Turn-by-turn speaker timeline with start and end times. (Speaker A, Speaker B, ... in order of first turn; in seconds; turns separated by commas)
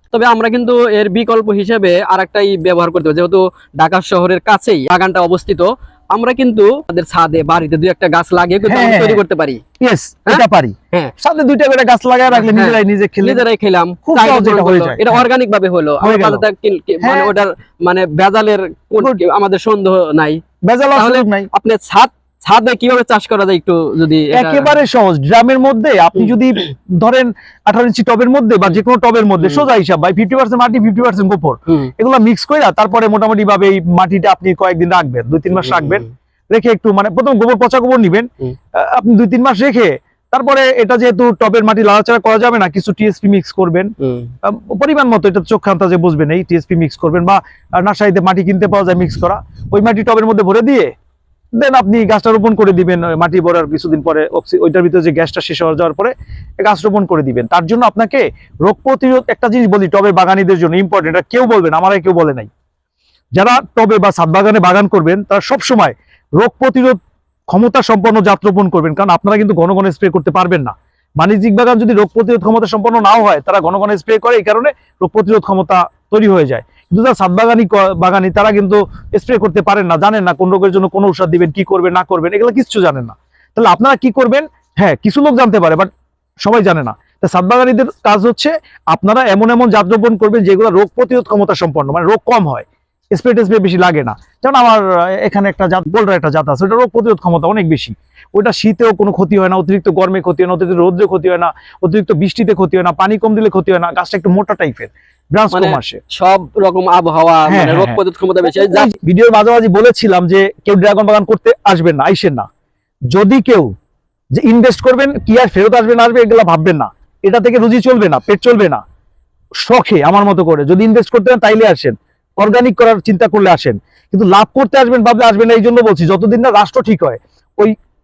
Speaker A: 0.1-9.6, Speaker B: 8.7-9.2, Speaker B: 9.8-13.4, Speaker A: 12.3-20.4, Speaker B: 14.1-15.2, Speaker B: 16.0-16.4, Speaker B: 17.0-17.3, Speaker B: 20.7-21.5, Speaker A: 20.9-24.7, Speaker B: 24.3-43.9, Speaker A: 35.6-36.1, Speaker A: 44.0-44.3, Speaker B: 44.4-50.9, Speaker B: 51.6-62.5, Speaker B: 63.4-67.0, Speaker B: 67.5-85.9, Speaker B: 86.5-106.0, Speaker A: 105.5-108.9, Speaker B: 107.5-108.0, Speaker B: 108.5-112.5, Speaker B: 113.1-113.7, Speaker B: 114.3-118.8, Speaker B: 119.6-127.8